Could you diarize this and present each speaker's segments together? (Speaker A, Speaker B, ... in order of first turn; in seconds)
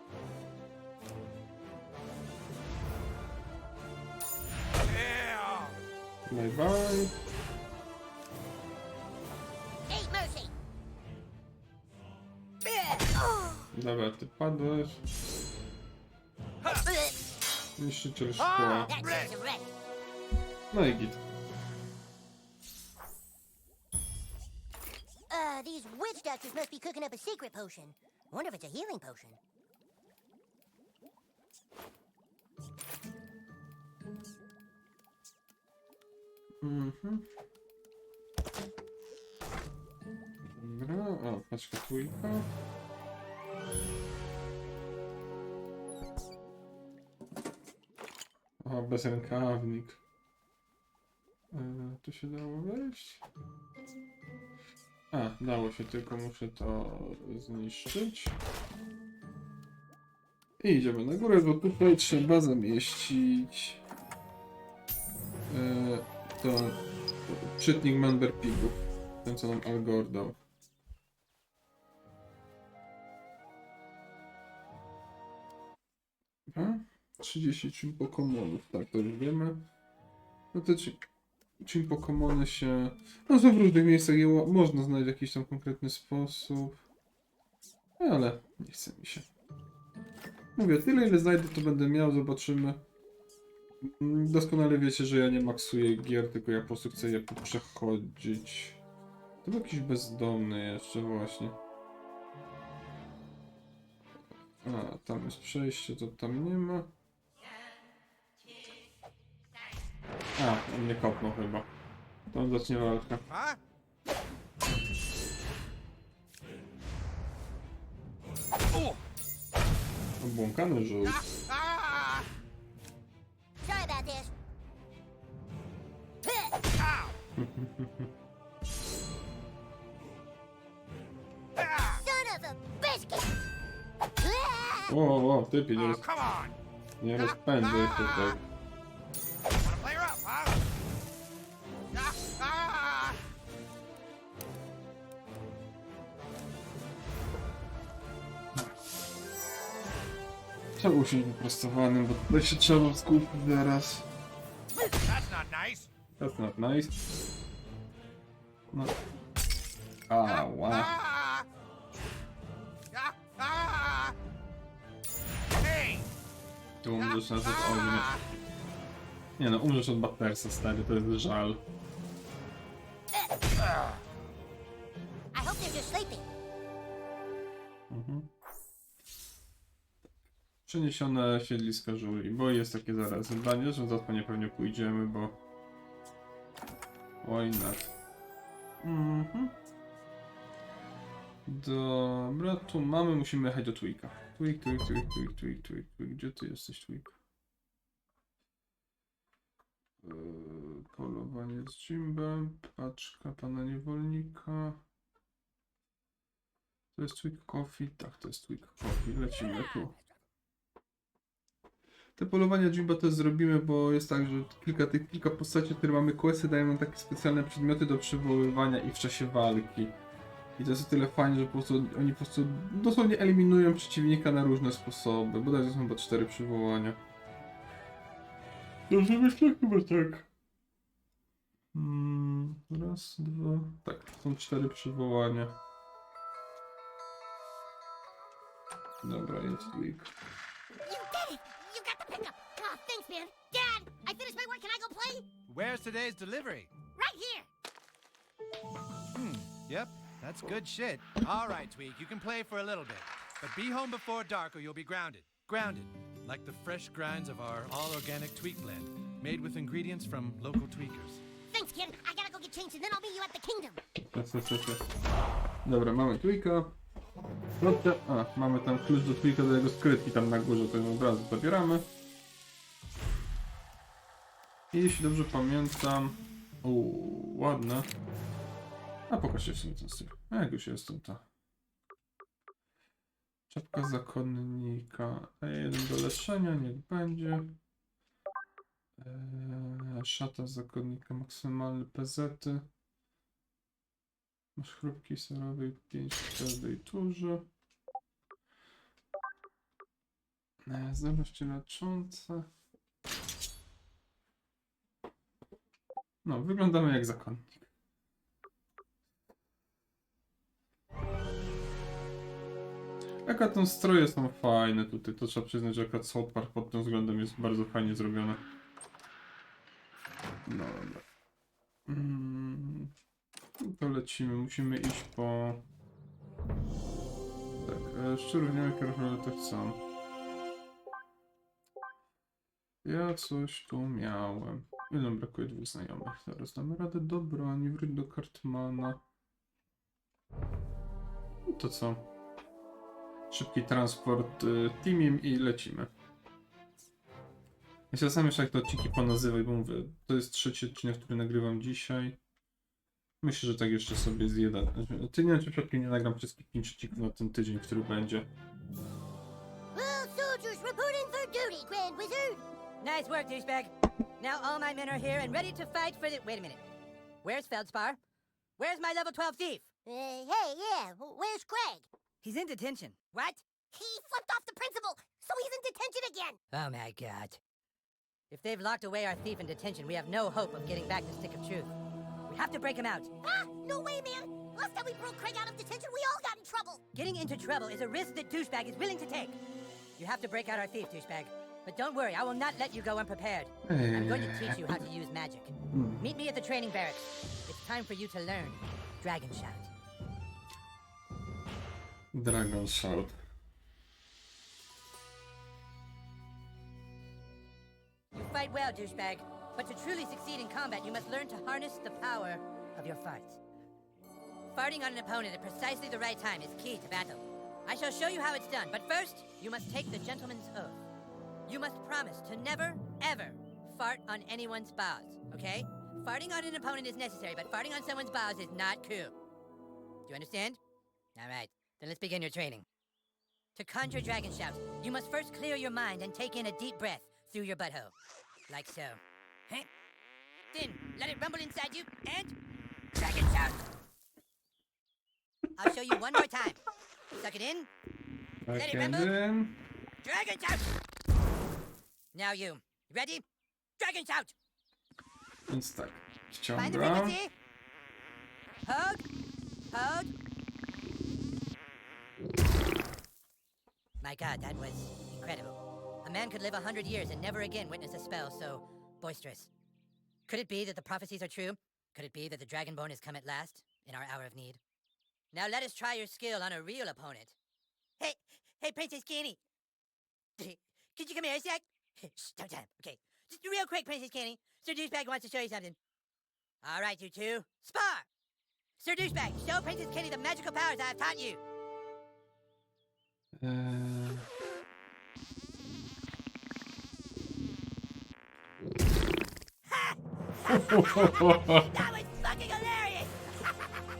Speaker A: 4.8-5.8, 18.4-19.3, 113.3-113.6, 118.7-119.0, 121.0-122.2, 126.8-127.1, 131.6-132.0, 135.7-136.5, 137.2-138.3, 139.6-140.6, 141.9-143.2, 155.0-155.9, 160.3-161.4, 162.9-164.1, 165.6-166.1, 167.0-168.2
Speaker B: 6.3-7.1, 13.7-15.0, 17.8-18.9, 20.7-21.2, 36.6-37.3, 40.5-42.5, 48.6-50.0, 51.5-53.2, 55.1-58.4, 60.6-63.8, 65.5-70.4, 76.5-79.6, 80.5-81.0, 81.6-86.8, 88.0-89.3, 90.5-92.8, 93.8-98.8, 99.4-101.6, 104.6-106.9, 110.4-111.7, 112.3-113.2, 120.2-121.2, 127.3-128.1, 134.9-136.0, 137.0-138.4, 150.8-154.1, 156.2-156.9, 160.1-160.9, 166.8-168.1, 169.4-171.6, 177.9-178.3, 180.7-185.4, 187.2-187.9, 188.8-189.5, 191.4-197.1, 200.0-204.8, 206.9-209.9, 212.2-220.0, 220.6-227.0, 228.9-230.3, 231.7-235.6, 239.0-240.1, 264.0-264.8, 265.6-266.7, 267.6-271.9, 274.7-277.9, 279.1-281.2, 283.5-287.6, 289.0-292.7, 294.6-297.5, 300.6-302.5, 306.2-307.7, 313.2-318.4, 320.4-321.0, 321.9-322.9, 323.6-325.6, 327.6-329.8, 332.8-339.0, 341.5-342.1, 343.3-345.9, 347.9-352.2, 353.2-358.3, 393.6-394.9, 395.7-396.1, 402.1-403.2, 448.4-449.6, 455.5-457.2, 493.4-494.3, 500.5-501.6
Speaker C: 9.9-10.5, 13.0-13.7, 16.8-17.1, 18.9-19.7, 25.3-29.4, 123.6-124.3, 126.2-126.6, 131.9-133.3, 134.2-134.9, 175.3-176.3, 240.8-245.3, 246.9-247.5, 261.5-263.8, 359.7-362.4, 369.8-371.9, 373.7-376.4, 383.2-386.8
Speaker D: 245.5-246.7, 249.1-261.2
Speaker E: 362.8-366.6, 367.2-368.0, 368.6-369.6, 372.2-373.4, 376.5-377.4, 378.3-381.7, 382.3-383.1, 386.9-389.4, 390.0-399.7, 408.1-413.4, 414.5-420.8, 421.5-429.1, 430.1-430.6, 431.1-432.6, 433.6-437.9, 438.5-439.7, 440.5-442.3, 442.9-443.6, 445.6-446.6, 447.2-447.7, 448.6-449.1, 450.0-450.6, 452.1-453.2, 453.8-454.3, 456.6-457.3, 458.6-459.0, 459.7-460.1, 464.0-469.5, 470.3-474.6, 475.3-477.3, 478.0-479.4, 480.4-485.8, 486.6-488.1, 488.8-491.4, 499.7-503.5